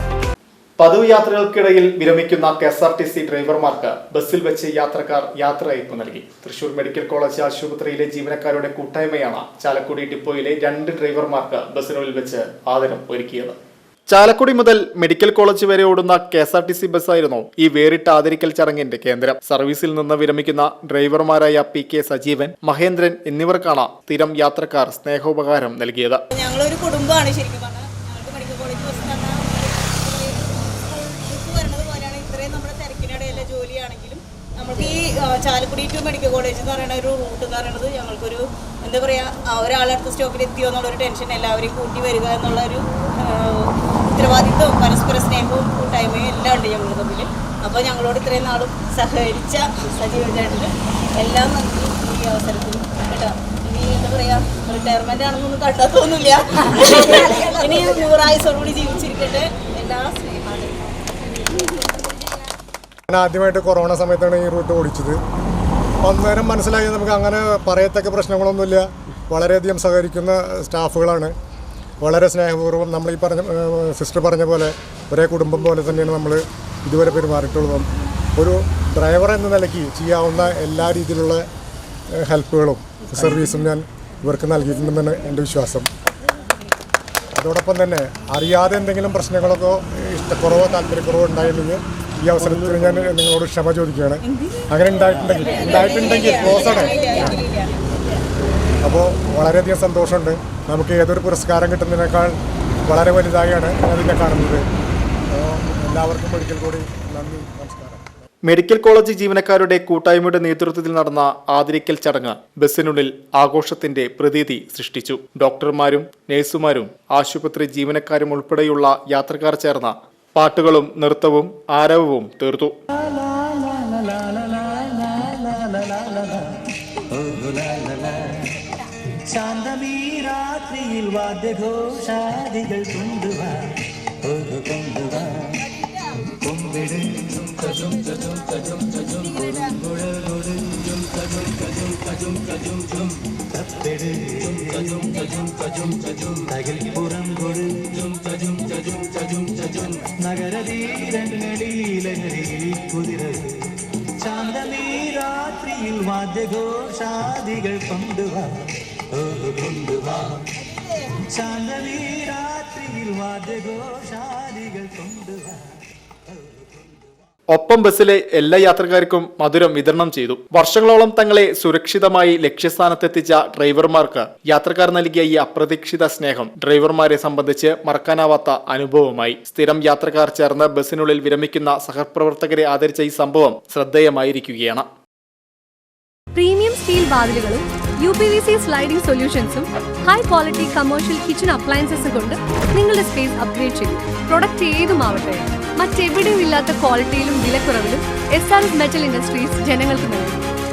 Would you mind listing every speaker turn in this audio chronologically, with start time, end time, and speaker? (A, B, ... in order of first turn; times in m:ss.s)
0:00.8-0:13.6 A
0:14.1-0:26.2 A
0:26.3-1:01.9 B
1:03.1-1:05.2 C
1:06.0-1:11.3 C
1:12.0-1:21.4 C
1:22.1-1:25.9 C
1:27.4-1:37.4 C
1:35.4-1:37.8 B
1:38.8-1:44.6 C
1:45.3-1:48.0 C
1:48.4-2:02.7 A
2:03.0-2:08.6 D
2:09.3-2:15.6 D
2:16.4-2:47.1 D
2:47.5-3:04.8 A
3:06.3-3:20.5 E